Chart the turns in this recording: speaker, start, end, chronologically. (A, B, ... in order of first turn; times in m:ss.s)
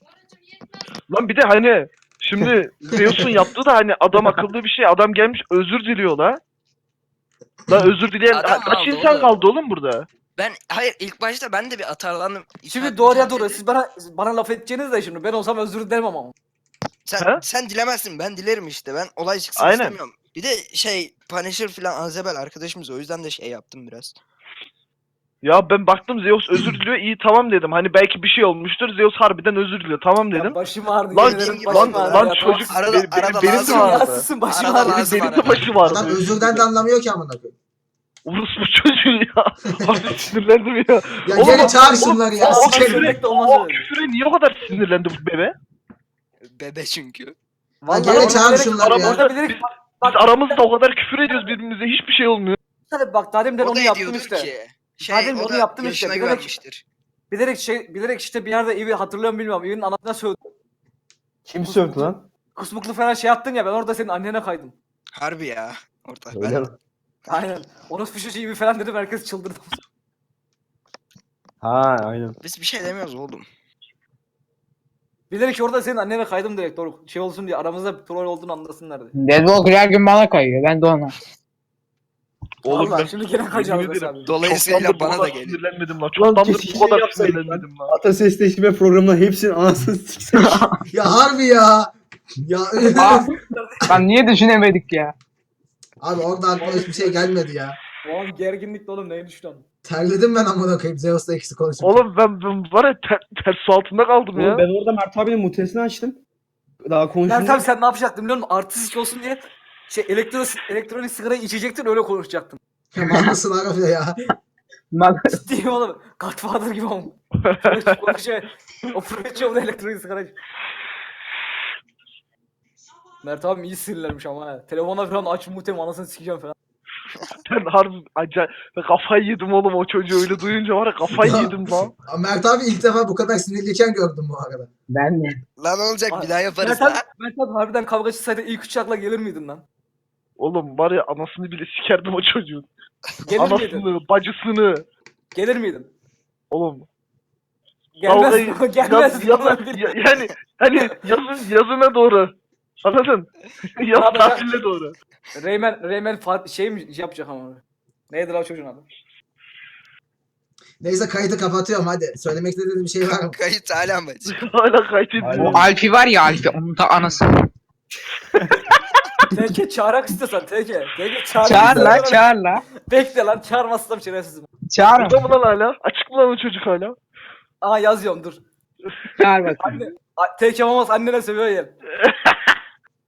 0:01.1-0:06.4 A
0:07.7-0:10.0 A
0:08.3-0:09.4 B
0:10.4-0:13.6 B
0:12.7-0:16.3 C
0:17.0-0:24.2 B
0:19.6-0:20.0 A
0:25.4-0:30.6 A
0:30.3-0:32.7 C
0:31.1-0:34.3 A
0:31.2-0:35.7 B
0:33.4-0:35.0 C
0:34.8-0:36.6 A
0:35.8-0:37.5 D
0:38.2-0:45.5 A
0:39.8-0:40.0 D
0:41.2-0:43.2 D
0:41.6-0:43.9 C
0:46.5-0:47.3 B
0:47.8-0:50.6 C
0:47.9-0:49.2 D
0:48.1-0:52.6 A
0:52.9-0:56.5 C
0:53.6-0:56.8 B
0:57.3-1:00.4 C
1:01.4-1:02.2 E
1:01.6-1:04.7 C
1:05.1-1:06.7 B
1:06.3-1:06.7 E
1:07.3-1:09.8 C
1:11.6-1:12.4 E
1:12.4-1:13.5 B
1:15.3-1:19.1 C
1:19.1-1:21.1 F
1:22.6-1:27.9 A
1:22.7-1:24.3 C
1:24.2-1:25.6 B
1:26.2-1:30.6 E
1:30.4-1:30.8 F
1:30.9-1:33.3 D
1:32.9-1:35.1 F
1:33.3-1:33.8 C
1:36.0-1:37.8 D
1:36.6-1:37.1 C
1:38.0-1:39.6 C
1:39.8-1:42.0 D
1:41.8-1:44.6 A
1:44.3-1:46.2 E
1:46.8-1:47.7 E
1:47.2-1:52.6 C
1:52.9-1:54.2 D
1:53.0-1:53.4 F
1:54.9-1:55.4 F
1:55.3-2:00.3 C
1:57.5-1:58.0 A
2:03.2-2:06.5 C
2:07.4-2:11.9 A
2:11.1-2:14.7 D
2:14.9-2:15.4 F
2:15.6-2:17.0 B
2:16.1-2:19.6 C
2:20.4-2:22.7 A
2:23.2-2:23.8 C
2:23.4-2:24.8 A
2:25.3-2:25.9 C
2:26.5-2:26.8 A
2:28.0-2:29.9 C
2:28.0-2:32.3 A
2:32.8-2:34.9 A
2:33.9-2:34.5 C
2:35.3-2:38.8 C
2:40.8-2:43.3 D
2:43.0-2:44.3 B
2:44.2-2:45.7 A
2:45.2-2:45.7 E
2:45.4-2:47.4 F
2:49.3-2:54.5 C
2:51.3-2:52.6 F
2:51.5-2:52.1 E
2:54.7-2:55.3 F
2:55.0-2:57.0 A
2:57.6-2:58.4 C
2:59.2-2:59.8 F
2:59.6-3:01.7 C
3:02.0-3:02.5 A